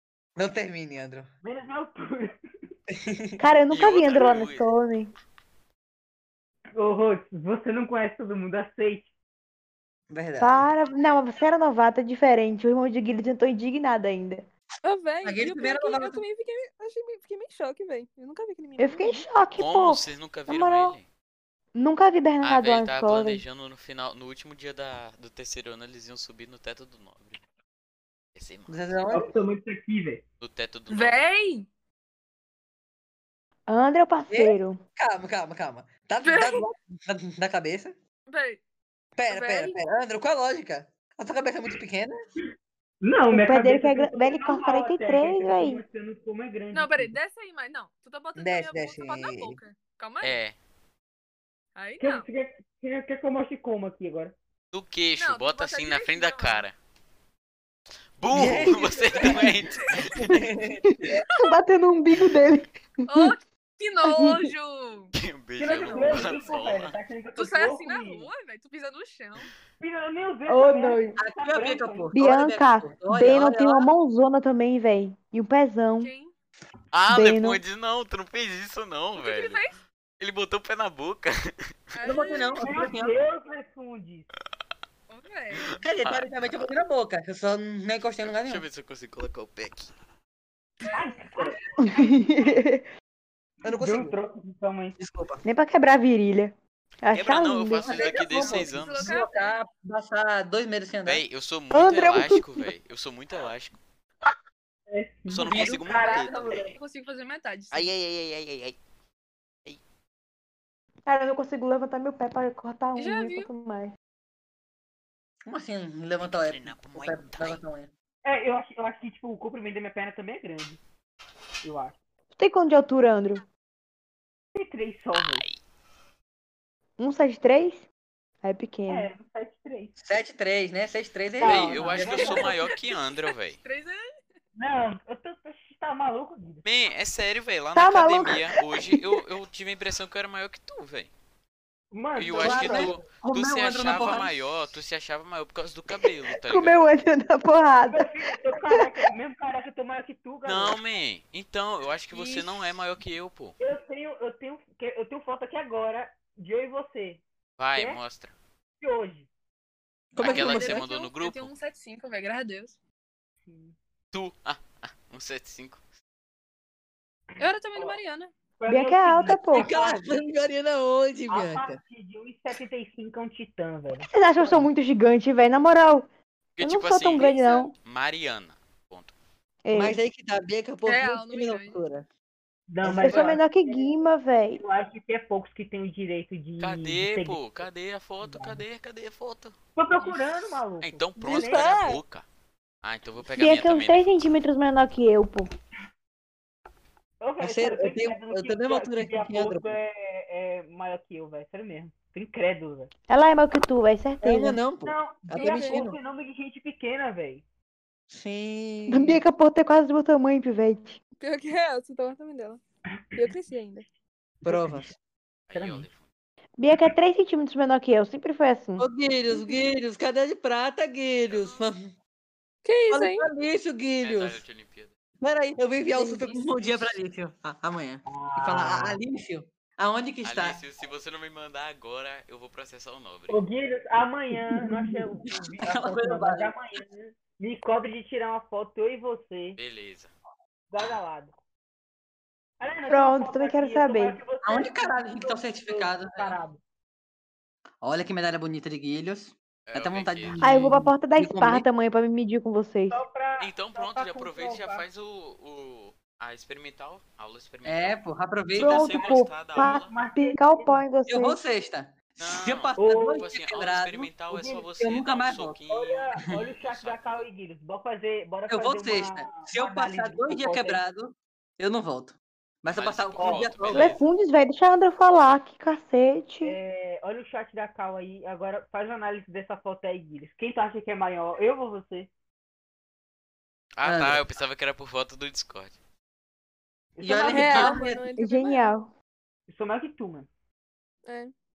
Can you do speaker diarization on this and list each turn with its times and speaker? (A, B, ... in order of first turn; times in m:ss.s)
0:00.4-0:01.3 A
0:01.4-0:02.4 B
0:02.9-0:03.4 A
0:03.4-0:05.1 C
0:03.7-0:04.7 D
0:06.8-0:09.1 B
0:10.1-0:10.7 A
0:10.4-0:14.4 C
0:14.8-0:19.3 E
0:15.2-0:16.2 A
0:18.8-0:21.0 C
0:19.6-0:21.1 D
0:21.8-0:23.4 C
0:22.4-0:27.4 D
0:28.4-0:29.0 D
0:28.7-0:29.3 A
0:29.1-0:30.2 B
0:30.4-0:31.2 D
0:30.9-0:31.7 E
0:33.7-0:34.8 C
0:34.3-0:38.0 A
0:36.2-0:36.7 E
0:38.3-0:38.6 E
0:39.2-0:42.2 A
0:39.3-0:39.8 E
0:43.0-0:47.2 B
0:43.3-0:45.8 C
0:46.7-0:50.4 E
0:48.4-0:49.6 A
0:50.2-0:50.6 D
0:51.8-0:52.3 E
0:52.0-0:54.3 B
0:54.7-0:56.7 D
0:55.2-0:56.6 E
0:58.2-1:00.2 D
0:58.3-1:01.2 A
0:58.3-0:59.5 C
1:00.2-1:03.4 C
1:03.1-1:05.1 E
1:04.0-1:04.5 C
1:05.2-1:07.0 D
1:05.6-1:08.3 B
1:05.8-1:06.4 A
1:07.3-1:09.5 E
1:09.8-1:12.2 B
1:10.5-1:11.2 C
1:11.2-1:13.9 A
1:12.1-1:16.1 C
1:16.0-1:16.3 E
1:16.9-1:19.6 D
1:17.1-1:17.6 C
1:19.2-1:19.8 E
1:20.2-1:21.7 D
1:22.0-1:22.7 E
1:22.0-1:23.2 A
1:22.6-1:24.3 B
1:25.1-1:25.8 E
1:25.7-1:26.7 D
1:25.7-1:28.6 A
1:28.2-1:29.9 D
1:30.8-1:31.4 E
1:30.9-1:31.6 B
1:31.8-1:32.9 C
1:33.6-1:34.2 A
1:33.7-1:34.9 B
1:35.0-1:35.4 A
1:35.4-1:38.1 C
1:37.1-1:39.2 D
1:37.8-1:41.2 A
1:38.2-1:39.6 E
1:41.0-1:43.8 D
1:41.7-1:42.7 C
1:44.9-1:46.7 B
1:45.3-1:46.8 D
1:45.5-1:47.9 E
1:47.7-1:48.8 D
1:51.1-1:53.9 C
1:53.0-1:53.5 E
1:55.5-1:57.9 A
1:56.2-1:57.6 D
1:58.2-2:00.8 B
2:01.6-2:02.0 B
2:02.3-2:03.4 C
2:04.6-2:05.4 B
2:05.1-2:05.6 D
2:07.0-2:07.9 C
2:08.4-2:09.1 C
2:08.9-2:09.9 B
2:10.0-2:12.5 A
2:11.4-2:12.6 B
2:11.4-2:13.6 D
2:12.1-2:14.0 E
2:14.6-2:16.6 B
2:16.6-2:21.1 D
2:17.8-2:19.2 C
2:21.9-2:23.0 B
2:22.2-2:26.9 D
2:22.3-2:24.3 A
2:23.2-2:24.3 C
2:26.4-2:28.9 C
2:27.9-2:30.8 B
2:30.4-2:33.6 D
2:32.1-2:32.6 E
2:33.6-2:38.0 B
2:37.6-2:38.3 D
2:38.8-2:39.3 B
2:40.1-2:40.8 A
2:40.2-2:42.8 E
2:40.2-2:41.5 D
2:43.5-2:43.8 B
2:44.1-2:45.8 D
2:47.4-2:48.3 E
2:48.6-2:50.2 B
2:48.7-2:49.7 C
2:49.5-2:51.8 A
2:51.3-2:54.7 B
2:54.1-2:56.1 C
2:56.6-2:59.1 D
2:56.6-2:57.7 C
2:59.6-3:00.0 C
2:59.7-3:02.1 A
3:00.8-3:01.8 E
3:02.7-3:03.8 B
3:02.8-3:03.3 A
3:02.9-3:04.6 C
3:03.1-3:03.3 D
3:04.5-3:07.6 B
3:06.6-3:10.2 D
3:08.2-3:08.6 B
3:09.8-3:11.8 B
3:10.8-3:12.2 D
3:11.2-3:12.0 E
3:12.8-3:14.3 D
3:13.2-3:15.5 C
3:17.2-3:22.9 B
3:17.4-3:19.7 A
3:23.1-3:24.6 C
3:24.2-3:26.0 A
3:24.8-3:27.4 B
3:25.3-3:25.9 E
3:28.1-3:29.2 A
3:28.9-3:31.0 C
3:31.2-3:32.6 E
3:33.2-3:33.8 E
3:34.4-3:34.8 B
3:34.4-3:35.0 A
3:35.5-3:36.1 D
3:35.5-3:35.9 B
3:36.6-3:38.9 C
3:38.8-3:41.9 A
3:42.6-3:43.3 E
3:42.9-3:44.4 A
3:44.0-3:44.9 D
3:45.2-3:50.6 A
3:45.9-3:46.4 C
3:48.1-3:49.0 B
3:50.2-3:53.4 D
3:53.3-3:59.6 B
3:54.6-3:56.6 A
3:59.6-4:00.1 D
4:00.7-4:01.3 B
4:02.6-4:06.6 B
4:02.9-4:04.2 C
4:04.4-4:06.4 A
4:07.8-4:11.7 A
4:09.7-4:10.4 D
4:10.4-4:13.0 C
4:12.9-4:14.8 B
4:13.4-4:18.0 D
4:17.6-4:19.0 A
4:18.5-4:19.9 D
4:18.6-4:21.4 C
4:18.8-4:20.8 B
4:21.1-4:24.1 A
4:22.2-4:27.3 D
4:22.8-4:23.3 B
4:24.2-4:24.7 B
4:24.8-4:25.6 A
4:25.7-4:30.8 B
4:28.5-4:34.0 A
4:32.7-4:34.0 D
4:33.2-4:33.6 B
4:33.7-4:36.6 C
4:36.4-4:42.1 B
4:43.8-4:45.8 D
4:43.8-4:44.2 A
4:47.0-4:47.8 B
4:47.0-4:48.1 A
4:47.2-4:48.7 E
4:48.2-4:48.9 C
4:49.5-4:50.3 B
4:51.1-4:51.3 E